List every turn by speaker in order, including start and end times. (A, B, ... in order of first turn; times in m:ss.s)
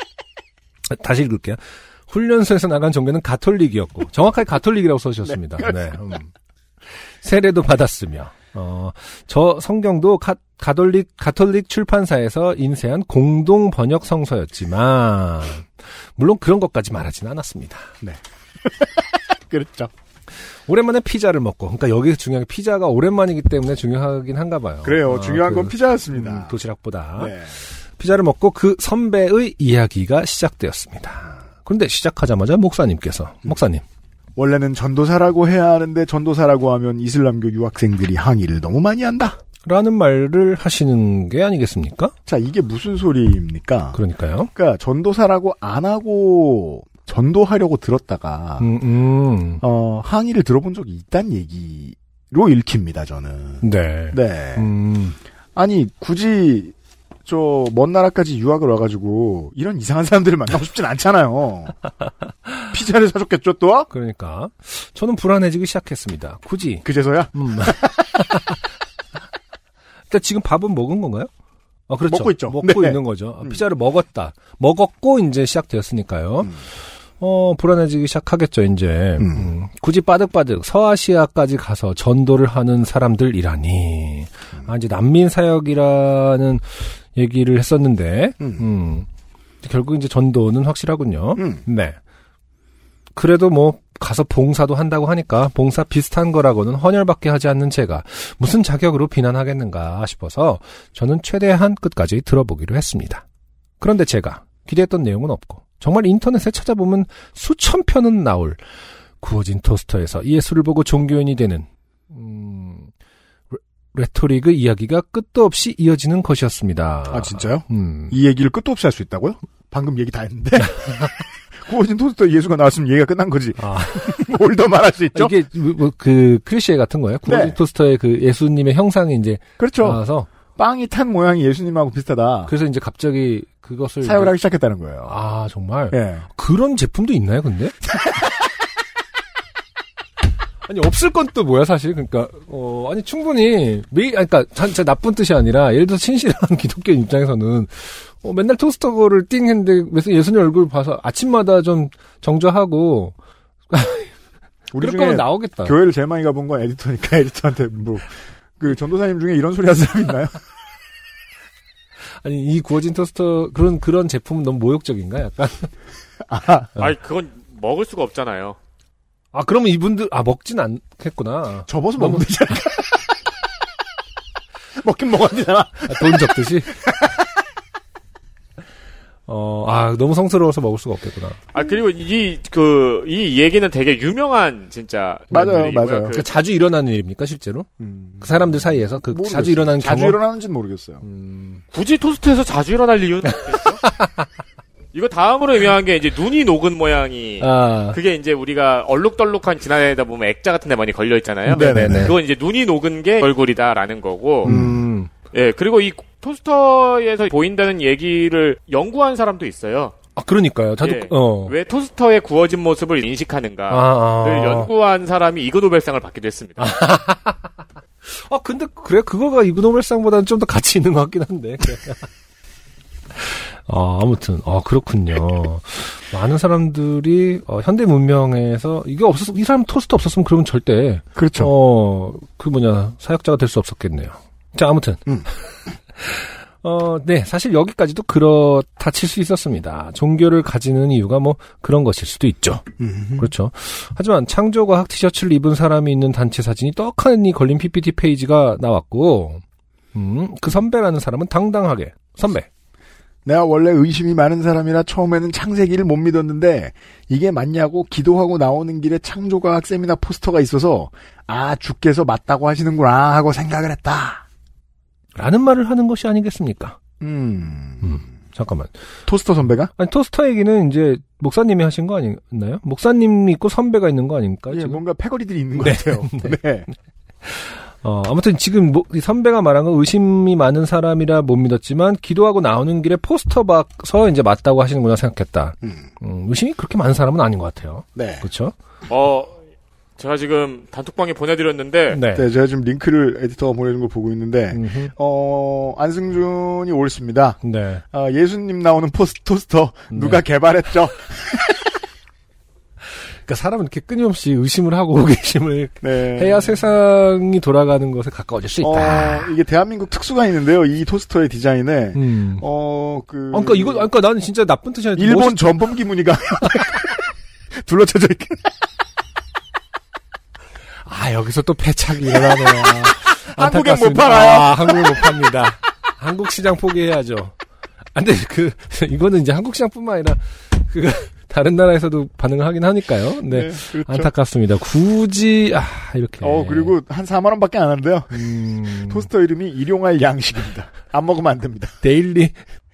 0:00.9-0:06.3 A
0:05.3-0:05.7 B
0:06.9-0:17.9 A
0:18.0-0:19.9 B
0:20.6-0:33.8 A
0:24.8-0:26.5 B
0:27.2-0:27.5 B
0:34.4-0:39.4 B
0:39.6-0:42.1 A
0:42.2-0:44.0 B
0:43.9-0:44.5 A
0:44.5-0:48.7 B
0:48.6-0:49.6 A
0:49.6-0:54.7 B
0:53.6-0:55.2 A
0:55.6-0:56.7 B
0:57.2-1:01.8 B
1:02.7-1:03.9 B
1:03.9-1:08.6 A
1:06.8-1:08.1 B
1:10.1-1:11.3 A
1:11.9-1:29.1 A
1:12.1-1:13.6 B
1:19.2-1:19.5 B
1:29.6-1:32.0 A
1:33.1-1:43.2 A
1:43.8-1:48.6 A
1:49.2-1:52.9 A
1:53.5-1:58.1 A
1:57.1-2:05.3 B
2:03.6-2:04.2 A
2:05.1-2:10.3 A
2:07.2-2:07.6 B
2:09.6-2:10.0 B
2:10.5-2:12.5 B
2:12.5-2:14.3 A
2:14.0-2:15.1 B
2:15.0-2:17.7 A
2:15.9-2:16.2 B
2:20.6-2:33.1 A
2:33.7-2:34.1 A
2:34.7-2:35.8 A
2:34.7-2:40.4 B
2:42.2-2:45.7 A
2:46.3-2:46.7 B
2:46.8-2:48.6 C
2:49.3-2:52.6 A
2:51.7-2:53.0 B
2:54.8-2:57.3 B
2:55.8-2:56.8 A
2:59.3-3:01.4 A
3:01.5-3:06.3 C
3:05.3-3:06.2 B
3:06.0-3:07.7 A
3:07.8-3:11.0 B
3:08.2-3:10.2 A
3:11.0-3:11.6 A
3:11.7-3:13.8 C
3:13.3-3:14.3 A
3:14.9-3:24.6 C
3:17.4-3:18.0 A
3:21.5-3:22.1 A
3:21.5-3:22.1 B
3:24.4-3:24.9 B
3:24.4-3:25.1 A
3:25.3-3:29.9 C
3:30.2-3:31.5 A
3:30.8-3:36.8 C
3:33.7-3:34.7 A
3:36.6-3:37.5 A
3:38.0-3:42.1 A
3:43.1-4:09.4 A
3:51.2-3:51.5 B
4:02.8-4:03.3 B
4:09.9-4:12.5 A
4:13.2-4:24.2 B
4:25.1-4:26.8 A
4:27.0-4:27.9 B
4:27.8-4:28.7 A
4:29.1-4:29.7 B
4:29.8-4:34.8 A
4:34.5-4:36.7 B
4:35.6-4:36.4 A
4:37.2-4:48.5 A
4:48.0-4:48.2 B
4:48.9-4:49.4 C
4:50.0-4:52.0 C
4:51.9-4:52.3 A
4:52.1-4:57.4 B
4:54.5-4:54.9 A
4:57.4-4:57.8 A
4:57.9-5:01.7 B
4:59.9-5:00.2 A
5:03.2-5:09.3 A
5:05.8-5:06.4 B
5:08.6-5:13.9 B
5:11.9-5:12.4 A
5:13.3-5:15.7 A
5:15.0-5:17.0 B
5:17.6-5:18.5 B
5:20.8-5:27.3 A
5:22.6-5:25.3 B
5:27.9-5:36.7 A
5:33.3-5:34.1 B
5:36.2-5:41.8 B
5:38.1-5:39.1 A
5:41.8-5:42.4 A